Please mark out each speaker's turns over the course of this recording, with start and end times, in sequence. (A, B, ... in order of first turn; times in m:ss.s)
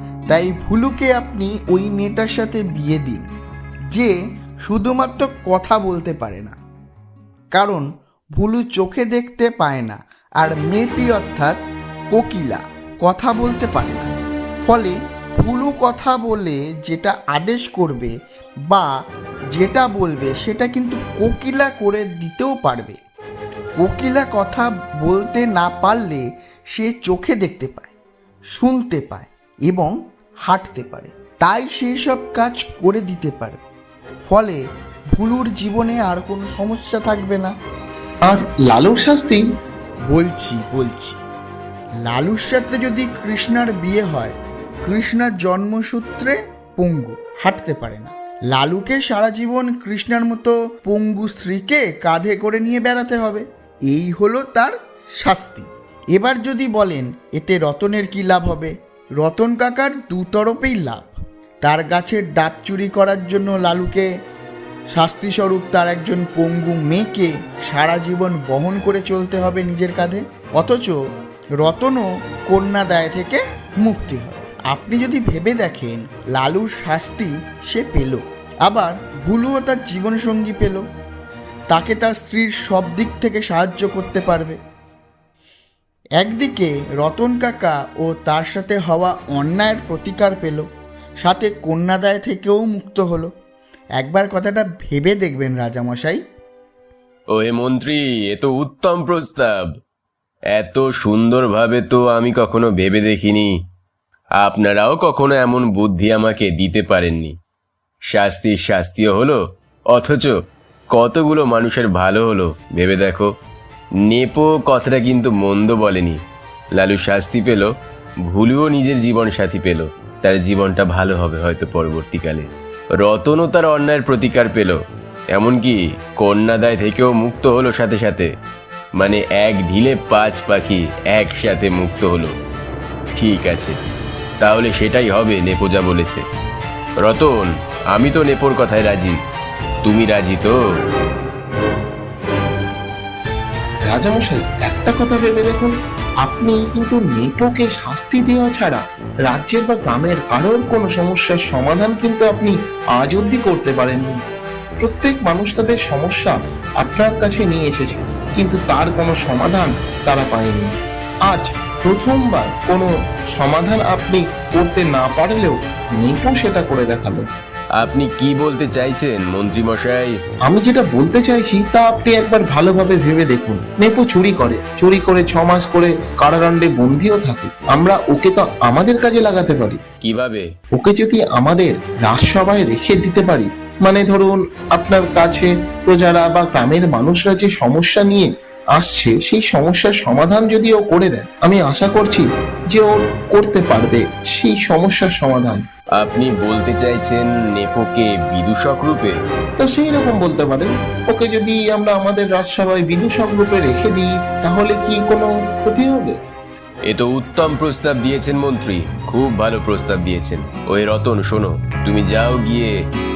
0:00.3-0:03.3 A
0:04.7-0:06.6 A
0:07.5-0:11.6 A
0:12.1-0:14.1 A
0:14.6-0:18.1 A
0:19.5-0:23.0 A
0:23.8-0:27.9 A
0:28.6-0:29.9 A
0:30.5-0:33.6 A
0:34.3-0:34.6 A
0:35.1-0:37.5 A
0:38.3-0:39.4 B
0:40.1-0:41.2 A
0:42.0-1:04.1 A
1:04.9-1:11.0 A
1:11.6-1:20.8 A
1:21.7-1:24.6 A
1:26.2-1:30.7 A
1:31.2-1:33.3 A
1:34.0-1:36.2 A
1:37.3-1:39.7 C
1:40.5-1:43.5 C
1:44.4-1:47.3 C
1:48.1-1:49.4 C
1:49.9-1:50.3 C
1:50.9-1:53.3 C
1:54.1-1:56.2 C
1:56.8-1:57.7 C
1:58.3-2:04.8 C
2:05.3-2:08.3 C
2:09.0-2:12.3 C
2:13.2-2:13.8 C
2:14.4-2:16.2 C
2:17.0-2:19.2 C
2:19.8-2:20.6 C
2:23.9-2:25.7 B
2:26.2-2:34.1 B
2:34.8-2:40.7 B
2:41.3-2:47.2 B
2:47.8-2:50.1 C
2:50.5-2:59.8 B
3:00.0-3:00.5 C
3:00.8-3:15.6 B
3:16.0-3:19.1 C
3:19.6-3:26.2 B
3:26.9-3:32.7 C